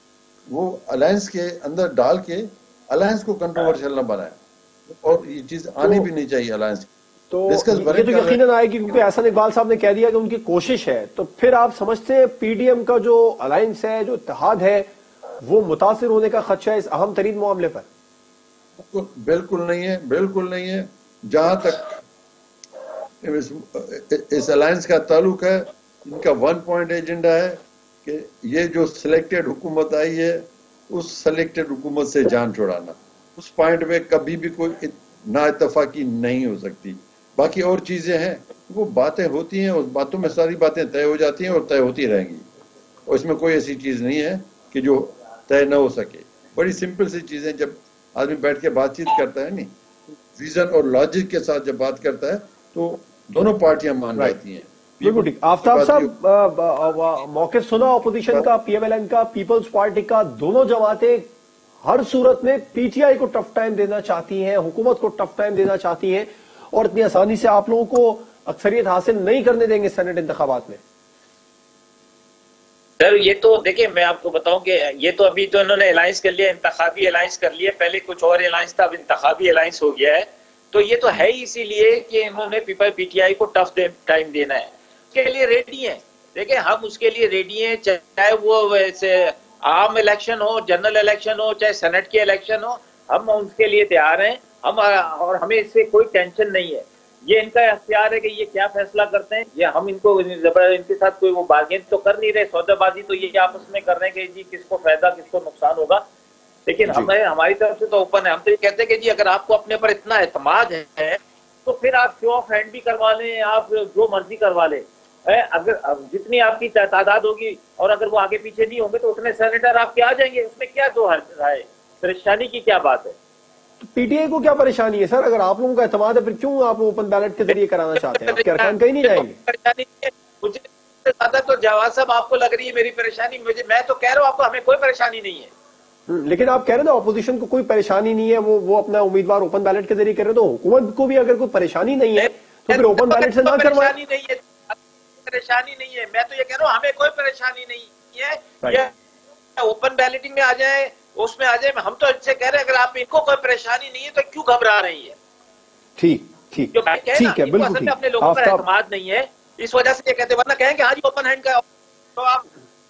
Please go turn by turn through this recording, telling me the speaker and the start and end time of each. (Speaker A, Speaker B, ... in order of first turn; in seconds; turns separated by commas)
Speaker A: 0.5-6.9, Speaker B: 5.8-6.1, Speaker B: 7.3-14.9, Speaker A: 7.5-8.4, Speaker B: 15.4-17.9, Speaker A: 18.8-22.0, Speaker A: 23.2-42.5, Speaker A: 43.1-56.1, Speaker B: 55.0-61.3, Speaker B: 61.8-70.8, Speaker C: 73.0-106.0, Speaker C: 106.7-123.1, Speaker B: 123.8-129.3, Speaker C: 128.0-135.5, Speaker B: 136.1-143.9, Speaker C: 142.2-148.9, Speaker C: 149.6-155.2, Speaker B: 156.0-158.6, Speaker C: 156.7-161.6, Speaker C: 162.2-162.4